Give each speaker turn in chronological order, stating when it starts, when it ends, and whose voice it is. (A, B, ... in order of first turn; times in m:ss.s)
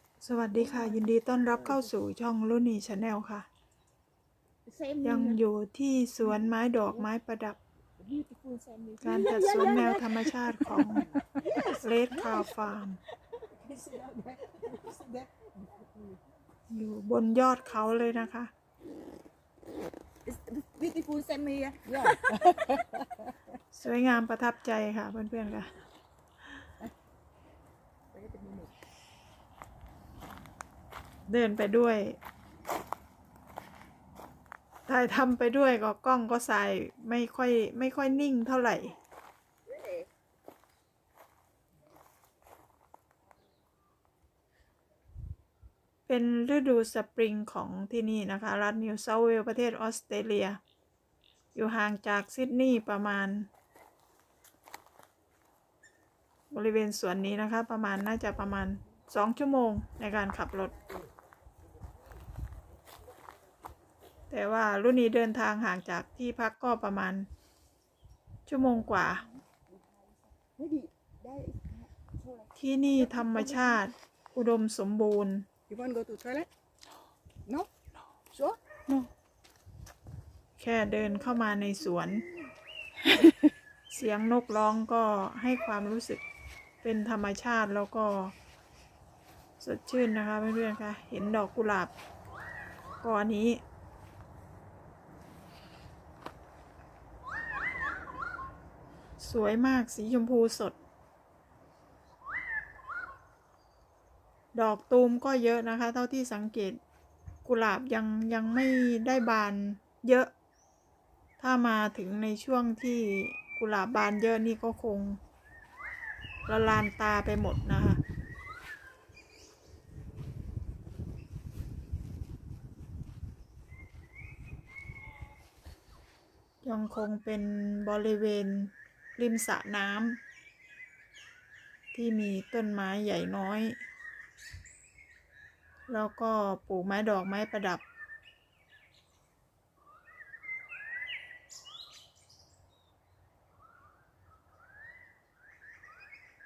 0:00.2-0:03.5 A
0:00.7-0:01.0 B
0:04.7-0:05.4 B
0:05.0-0:07.6 A
0:08.0-0:12.5 B
0:09.0-0:13.0 A
0:13.4-0:16.2 B
0:16.7-0:18.5 A
0:20.2-0:23.3 B
0:23.7-0:25.8 A
0:28.1-0:28.7 B
0:31.3-0:32.2 A
0:34.9-0:39.0 A
0:46.1-0:50.6 A
0:51.6-0:53.5 A
0:56.5-1:00.7 A
1:04.3-1:07.3 A
1:08.5-1:09.2 A
1:08.7-1:09.2 B
1:09.7-1:13.8 B
1:12.6-1:15.5 A
1:15.7-1:16.5 B
1:17.5-1:17.7 B
1:18.3-1:19.0 B
1:20.6-1:22.2 A
1:23.9-1:26.2 A
1:26.8-1:28.3 A
1:29.6-1:31.9 A
1:33.0-1:33.6 A
1:39.2-1:40.8 A
1:44.5-1:46.8 A
1:47.4-1:50.3 A
1:51.4-1:55.2 A
1:56.5-1:58.0 A
2:06.6-2:10.2 A
2:11.9-2:13.8 A
2:15.9-2:17.8 A